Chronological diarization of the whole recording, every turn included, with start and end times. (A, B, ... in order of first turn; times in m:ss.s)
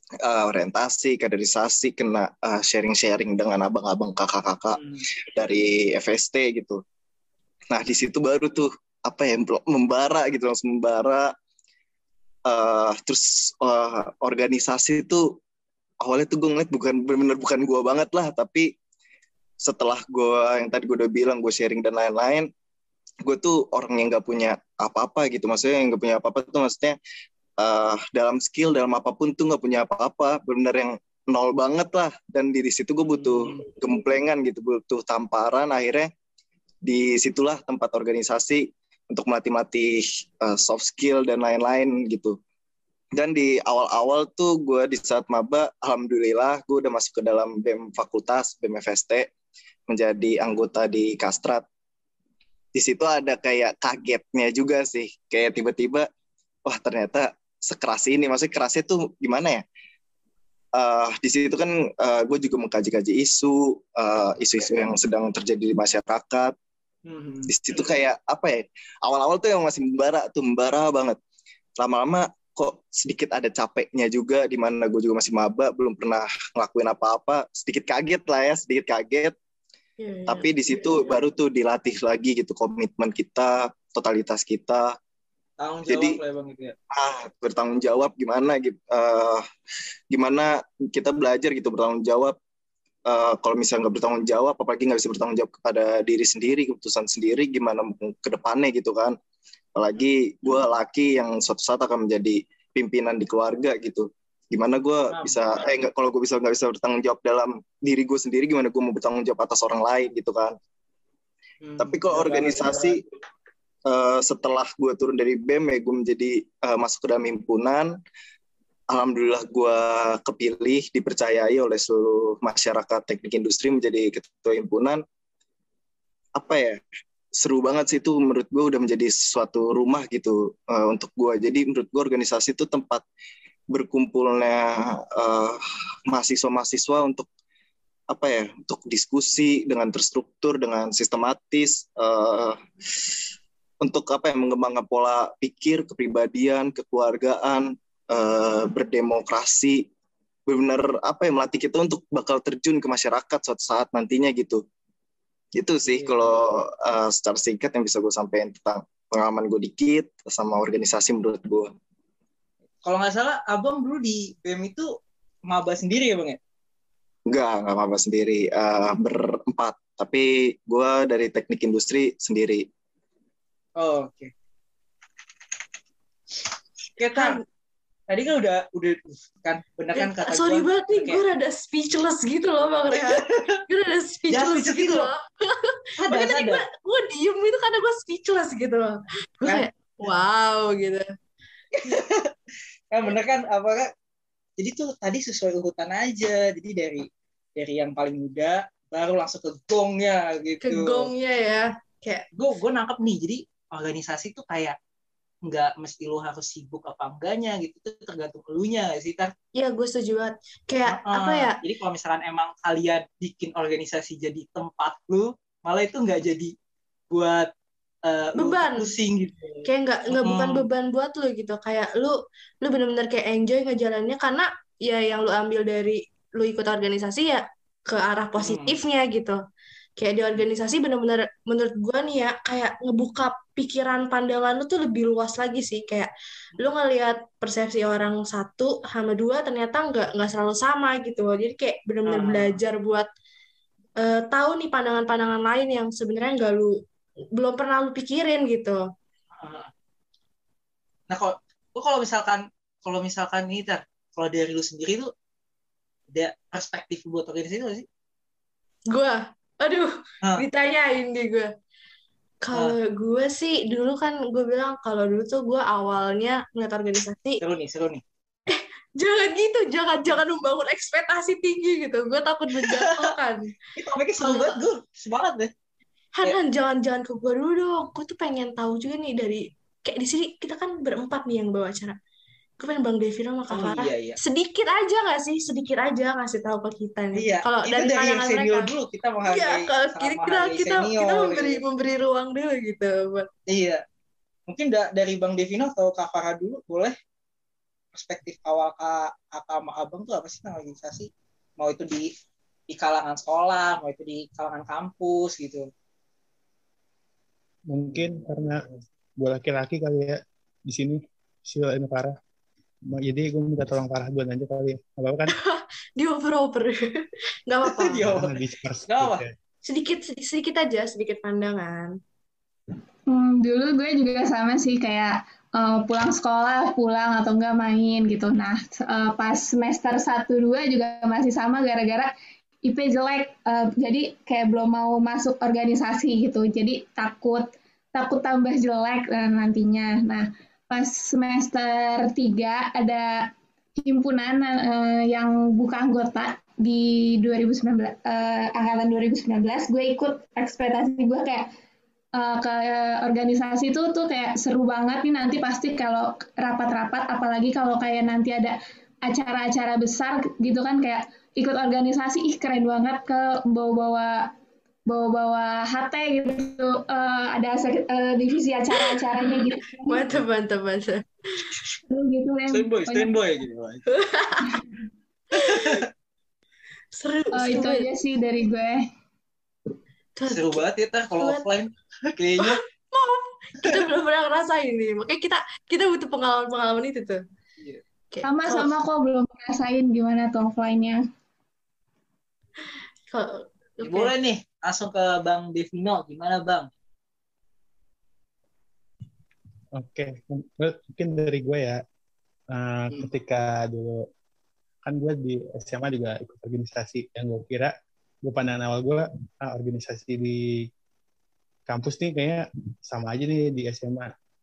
0:00.2-0:06.8 A
0:04.8-0:05.0 B
0:07.7-0:11.3 A
0:12.5-0:15.3 A
0:16.0-0:18.7 A
0:19.6-0:22.5 A
0:23.2-0:27.0 A
0:27.6-0:36.1 A
0:33.2-0:33.6 B
0:36.8-0:42.4 A
0:43.2-0:49.3 A
0:49.9-0:51.6 A
0:52.7-0:56.1 A
0:56.6-0:59.6 A
1:00.8-1:06.5 A
1:07.1-1:07.5 B
1:07.5-1:11.2 A
1:11.8-1:19.3 A
1:20.0-1:20.5 C
1:20.3-1:24.9 A
1:25.6-1:26.7 B
1:25.9-1:26.2 A
1:26.9-1:29.4 A
1:30.1-1:32.4 A
1:33.1-1:39.2 A
1:39.8-1:50.6 A
1:51.6-1:53.0 B
1:51.8-1:53.0 A
1:53.9-1:57.9 A
1:58.9-2:05.0 A
2:06.4-2:06.8 A
2:07.4-2:13.0 A
2:13.7-2:15.6 A
2:16.1-2:17.3 A
2:18.1-2:23.1 A
2:23.8-2:29.9 A
2:30.5-2:34.6 A
2:35.6-2:41.7 A
2:35.9-2:36.3 B
2:42.8-2:44.9 B
2:45.5-2:46.4 B
2:47.3-2:52.6 A
2:53.8-2:54.3 B
2:57.0-2:57.4 B
2:57.1-2:57.4 C
2:58.1-3:01.2 B
3:00.0-3:11.0 C
3:02.9-3:03.6 B
3:04.3-3:05.1 B
3:06.1-3:06.6 B
3:11.8-3:12.3 B
3:12.9-3:13.9 B
3:14.6-3:21.1 B
3:20.6-3:22.2 C
3:22.3-3:24.8 B
3:25.4-3:29.3 B
3:29.5-3:31.6 C
3:30.9-3:36.5 B
3:37.1-3:37.5 B
3:38.0-3:40.6 B
3:38.4-3:38.8 C
3:39.6-3:49.4 C
3:48.4-3:48.8 B
3:50.0-4:03.1 C
4:02.1-4:02.6 B
4:04.0-4:06.7 C
4:07.4-4:08.8 C
4:09.4-4:09.7 B
4:11.1-4:15.1 B
4:16.1-4:17.8 B
4:18.9-4:21.5 C
4:22.4-4:27.4 C
4:27.4-4:28.0 B
4:28.5-4:33.5 C
4:32.6-4:33.1 B
4:33.8-4:35.5 B
4:34.2-4:34.6 C
4:36.2-4:42.0 C
4:42.6-4:48.7 C
4:43.5-4:44.2 B
4:47.1-4:51.6 B
4:49.2-4:53.3 C
4:53.5-4:53.8 B
4:54.5-4:56.9 B
4:57.9-5:02.1 B
5:02.7-5:05.7 B
5:07.7-5:08.6 D
5:09.2-5:12.1 D
5:12.9-5:15.3 D
5:15.3-5:16.8 C
5:17.5-5:18.2 C
5:17.7-5:18.4 B
5:18.1-5:19.3 D
5:18.9-5:19.2 B
5:19.6-5:22.0 C
5:23.1-5:32.1 E
5:32.6-5:51.5 E
5:52.2-6:04.3 E
6:04.9-6:10.1 E
6:09.9-6:11.5 C
6:11.9-6:13.2 E
6:12.5-6:13.8 B
6:13.9-6:14.6 C
6:15.3-6:15.8 C
6:15.4-6:15.8 B
6:16.9-6:17.9 C
6:17.3-6:18.8 E
6:20.2-6:20.6 C
6:20.3-6:22.6 B
6:21.2-6:21.4 C
6:22.4-6:27.2 C
6:28.1-6:28.7 C
6:28.2-6:31.0 E
6:33.1-6:34.1 C
6:33.8-6:36.7 B
6:39.8-6:41.8 D
6:42.5-6:44.0 D
6:44.8-6:47.7 D
6:48.2-6:50.4 D
6:51.7-6:54.1 D